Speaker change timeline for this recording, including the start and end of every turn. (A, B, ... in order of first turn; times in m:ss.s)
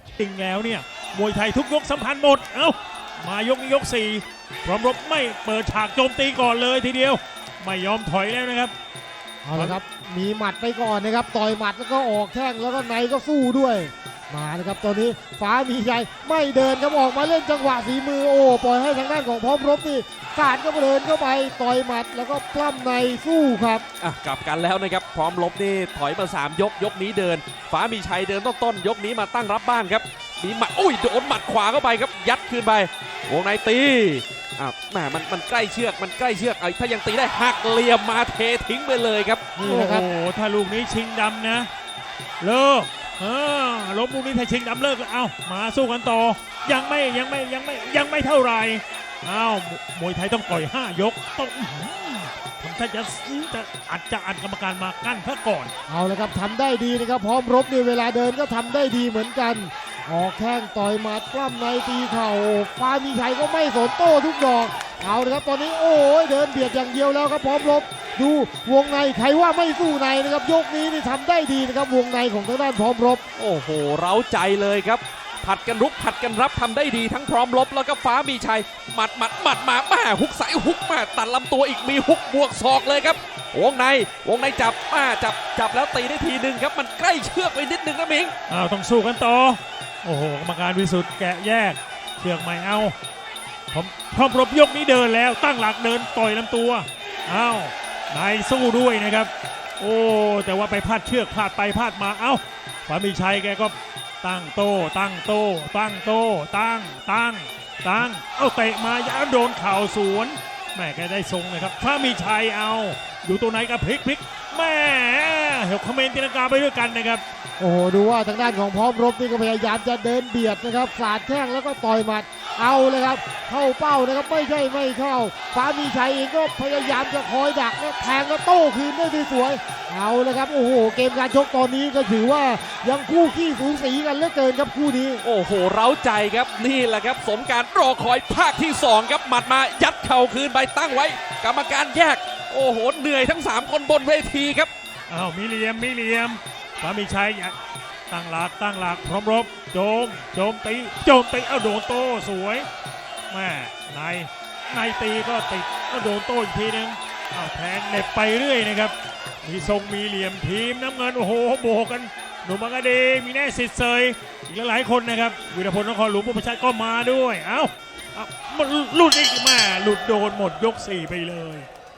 0:00.2-0:08.7 A
0:09.4-0:23.8 B
0:24.0-0:39.4 C
0:39.6-0:40.1 B
0:39.6-0:41.7 A
0:42.4-0:55.7 A
0:55.9-1:13.2 B
1:13.4-1:28.4 C
1:28.5-1:33.0 A
1:33.7-1:57.2 A
1:57.6-2:15.2 B
2:15.2-2:24.7 C
2:25.1-2:27.6 A
2:28.1-2:32.7 A
2:33.3-2:51.7 A